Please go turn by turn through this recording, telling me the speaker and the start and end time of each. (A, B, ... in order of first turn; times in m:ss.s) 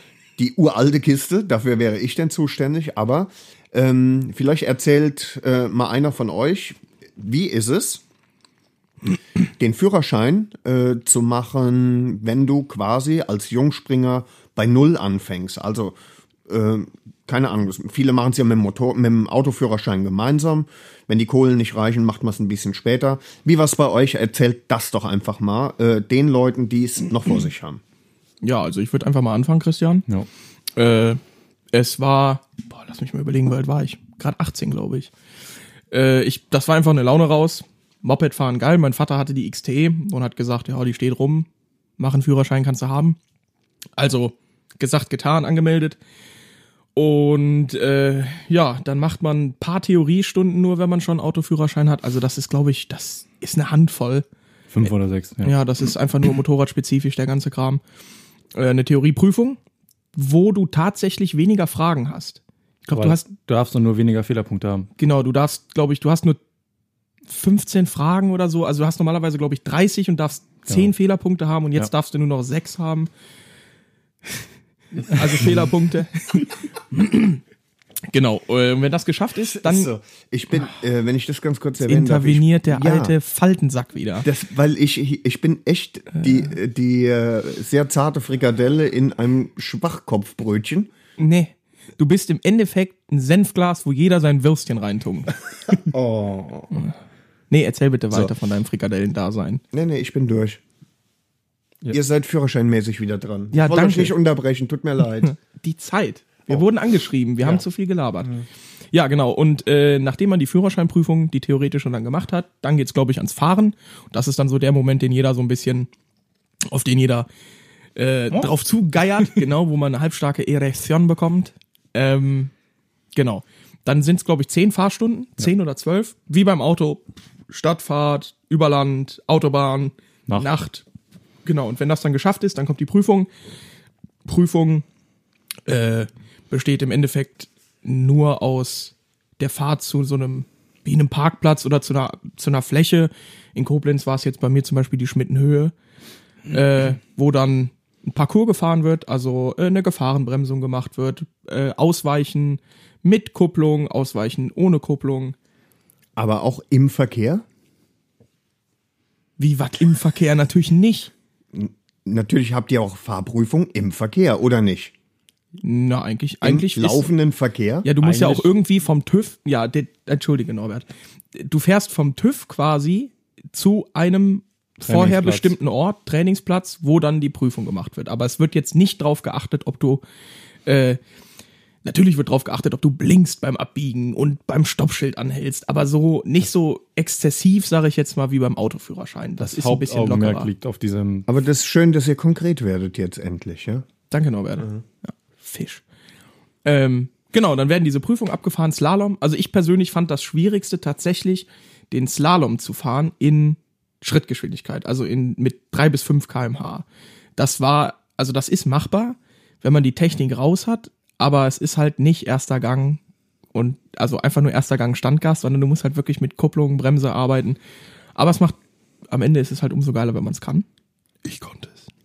0:00.4-0:08.0 A
0:09.6-0:16.0 A
0:16.5-0:27.8 A
0:28.4-0:30.0 B
0:30.8-0:31.2 B
0:31.7-0:35.1 B
0:35.9-0:43.2 B
0:44.0-0:46.0 B
0:47.0-0:54.2 B
0:54.7-0:55.6 C
0:55.4-0:57.8 B
0:58.5-0:59.6 B
1:00.1-1:03.2 B
1:02.9-1:04.9 C
1:05.0-1:06.4 B
1:07.3-1:13.1 B
1:15.0-1:17.4 B
1:18.1-1:19.9 B
1:19.4-1:23.1 A
1:21.8-1:24.3 B
1:24.2-1:30.9 A
1:31.2-1:35.4 B
1:35.7-1:36.8 A
1:37.5-1:39.6 B
1:39.7-1:40.6 A
1:41.9-1:45.3 A
1:43.5-1:44.2 B
1:45.2-1:48.4 B
1:48.9-1:55.9 B
1:56.7-1:57.3 B
1:58.0-2:02.5 B
2:03.1-2:10.8 B
2:11.4-2:13.3 B
2:14.2-2:14.8 B
2:15.6-2:25.7 B
2:26.5-2:35.4 B
2:36.2-2:37.4 A
2:39.4-2:41.1 B
2:41.5-2:44.9 A
2:45.6-2:47.1 B
2:46.4-2:47.9 A
2:47.8-3:00.0 B
2:48.0-2:48.5 C
2:54.8-2:55.5 C
3:00.6-3:01.0 B
3:01.8-3:10.5 B
3:09.4-3:11.3 C
3:11.3-3:13.8 A
3:14.1-3:15.8 B
3:16.6-3:26.8 B
3:27.4-3:33.0 B
3:33.5-3:37.6 B
3:38.2-3:38.6 B
3:39.1-3:40.6 B
3:41.2-3:41.8 B